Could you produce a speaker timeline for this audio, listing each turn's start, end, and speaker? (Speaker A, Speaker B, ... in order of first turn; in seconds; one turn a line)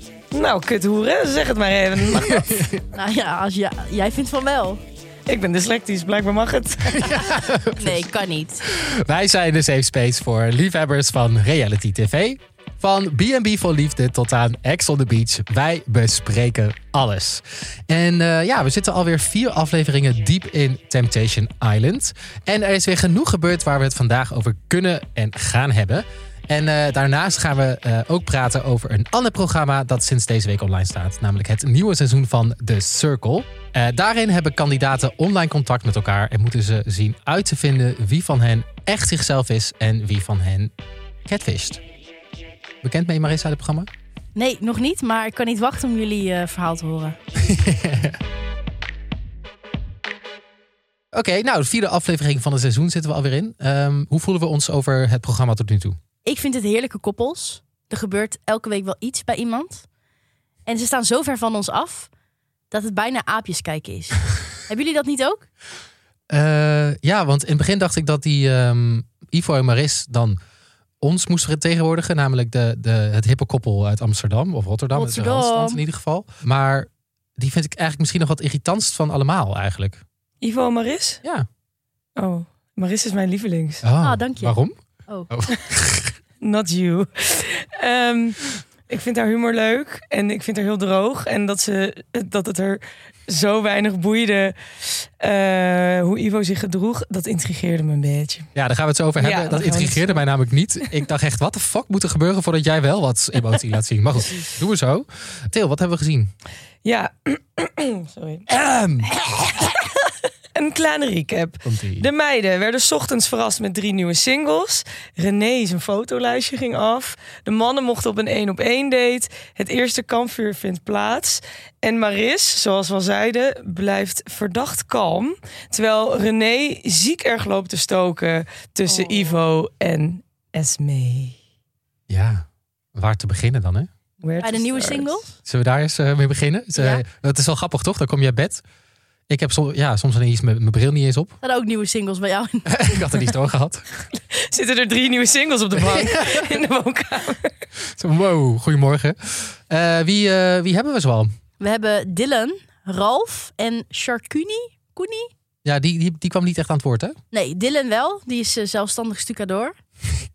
Speaker A: 0.3-2.5
Speaker B: 2.0-2.9
Speaker C: 2.9-4.8
Speaker A: 5.3-7.2
Speaker B: 6.8-8.1
Speaker C: 7.8-8.7
Speaker B: 8.6-40.7
Speaker B: 41.2-41.8
Speaker B: 42.8-43.9
Speaker C: 44.3-47.2
Speaker B: 47.4-48.2
Speaker B: 51.1-56.0
Speaker C: 56.2-59.9
Speaker C: 60.6-62.1
Speaker C: 62.7-65.5
Speaker B: 66.3-70.4
Speaker B: 71.0-80.0
Speaker C: 74.9-75.8
Speaker A: 80.4-81.2
Speaker A: 82.2-83.8
Speaker B: 83.8-84.8
Speaker C: 84.0-84.6
Speaker B: 85.3-86.1
Speaker A: 86.4-98.5
Speaker B: 98.5-106.3
Speaker A: 99.2-100.2
Speaker A: 106.8-108.5
Speaker B: 108.5-109.6
Speaker A: 109.3-131.4
Speaker B: 111.6-112.1
Speaker C: 128.8-129.3
Speaker B: 132.1-133.9
Speaker A: 134.2-135.2
Speaker C: 134.4-135.3
Speaker B: 135.4-138.6
Speaker C: 136.8-137.0
Speaker B: 139.3-141.4
Speaker C: 141.4-143.2
Speaker B: 142.7-143.8
Speaker A: 144.3-147.5
Speaker B: 145.8-146.6
Speaker B: 147.9-151.3
Speaker C: 151.6-155.3
Speaker B: 155.6-157.2
Speaker C: 157.3-159.7